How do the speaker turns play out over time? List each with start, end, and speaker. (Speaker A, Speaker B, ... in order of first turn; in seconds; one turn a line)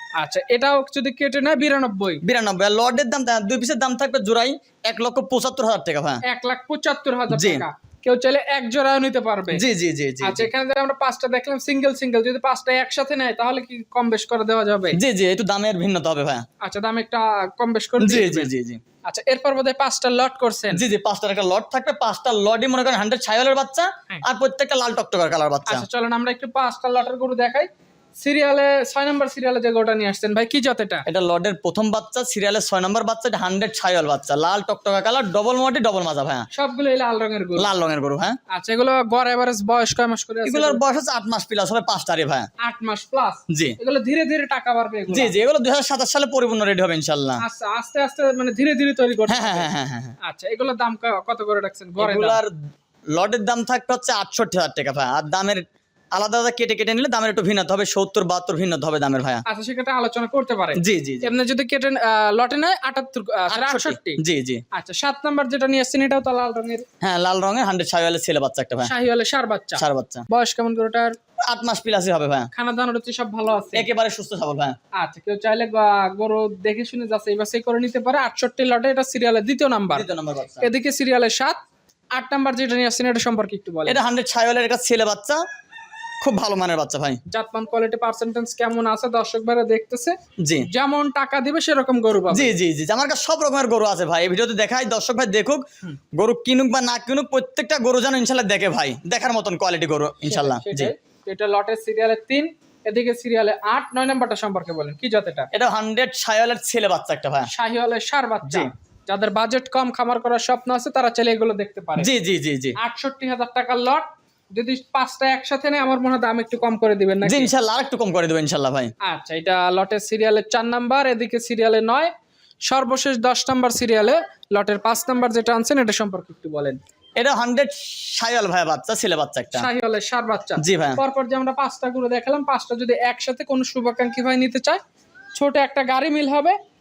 Speaker A: 0.2-2.2
Speaker B: 2.2-6.2
Speaker A: 6.2-9.6
Speaker B: 7.3-7.6
Speaker B: 9.5-10.5
Speaker A: 10.2-15.0
Speaker B: 14.9-16.4
Speaker A: 16.6-18.5
Speaker B: 18.0-18.8
Speaker A: 19.1-20.8
Speaker B: 20.7-25.9
Speaker A: 25.7-31.0
Speaker B: 31.1-36.5
Speaker A: 36.5-37.7
Speaker B: 37.6-38.4
Speaker A: 38.5-40.8
Speaker B: 40.5-42.5
Speaker A: 42.6-45.3
Speaker B: 43.5-43.8
Speaker B: 45.1-47.4
Speaker A: 47.4-49.7
Speaker B: 49.3-50.1
Speaker A: 50.2-52.4
Speaker B: 52.0-52.5
Speaker B: 53.2-55.6
Speaker B: 56.1-59.4
Speaker A: 59.5-64.2
Speaker B: 60.8-61.3
Speaker B: 63.5-64.6
Speaker A: 64.7-66.8
Speaker B: 67.0-68.9
Speaker A: 68.8-71.2
Speaker B: 69.8-70.2
Speaker B: 71.5-72.5
Speaker A: 72.5-73.9
Speaker B: 73.7-74.8
Speaker A: 75.0-80.1
Speaker B: 79.9-80.7
Speaker A: 80.6-81.6
Speaker A: 82.1-84.0
Speaker B: 83.9-85.4
Speaker B: 86.2-87.2
Speaker A: 87.3-90.2
Speaker B: 90.4-90.7
Speaker A: 90.7-92.5
Speaker B: 92.3-95.6
Speaker B: 96.2-100.9
Speaker A: 100.2-105.5
Speaker B: 105.5-107.5
Speaker A: 107.5-112.1
Speaker B: 112.0-112.8
Speaker A: 112.8-117.5
Speaker B: 117.2-118.9
Speaker A: 119.0-122.1
Speaker A: 122.7-126.8
Speaker B: 127.2-129.7
Speaker A: 129.5-134.8
Speaker B: 130.6-131.0
Speaker A: 135.4-136.6